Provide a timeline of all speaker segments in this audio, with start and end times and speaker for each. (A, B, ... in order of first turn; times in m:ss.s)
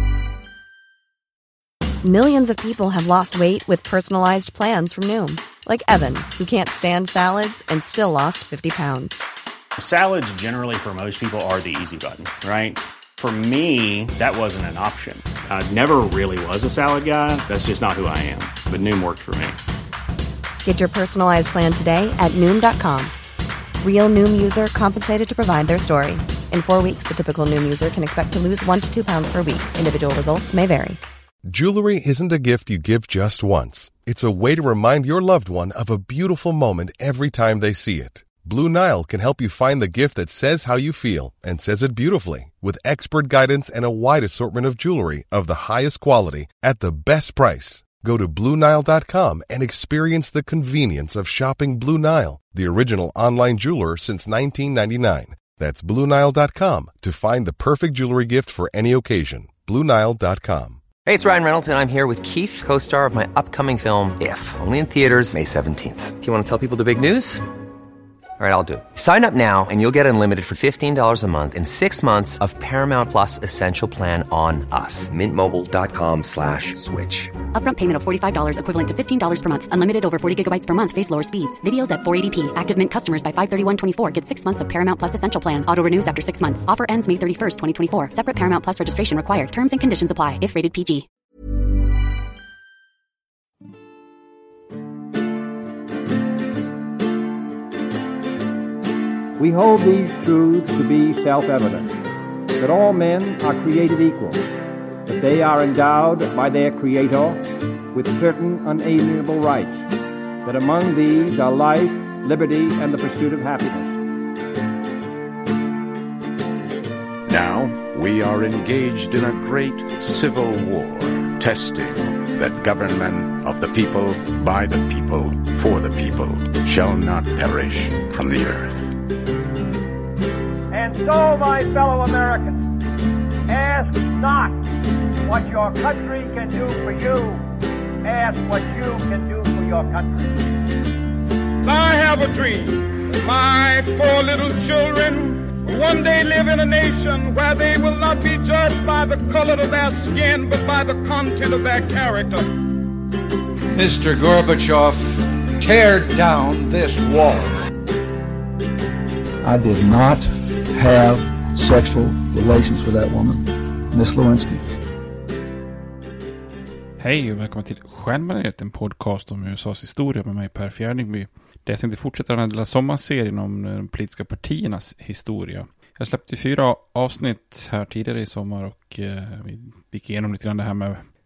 0:02.0-0:09.2 A
0:09.8-0:19.6 B
0:20.6-0:23.1 A
0:23.8-0:31.0 A
0:31.4-1:00.8 C
1:01.1-1:07.4 D
1:08.4-1:17.3 D
1:17.5-1:31.1 E
1:39.4-1:41.9 F
1:42.6-1:44.4 F
1:45.1-1:49.9 F
1:50.4-1:54.0 F
1:57.3-2:08.9 G
2:10.7-2:12.7 F
2:13.5-2:14.6 F
2:15.2-2:17.4 F
2:18.0-2:20.4 F
2:21.6-2:32.5 H
2:33.7-2:37.6 I
2:39.4-2:44.6 J
2:47.0-3:01.0 K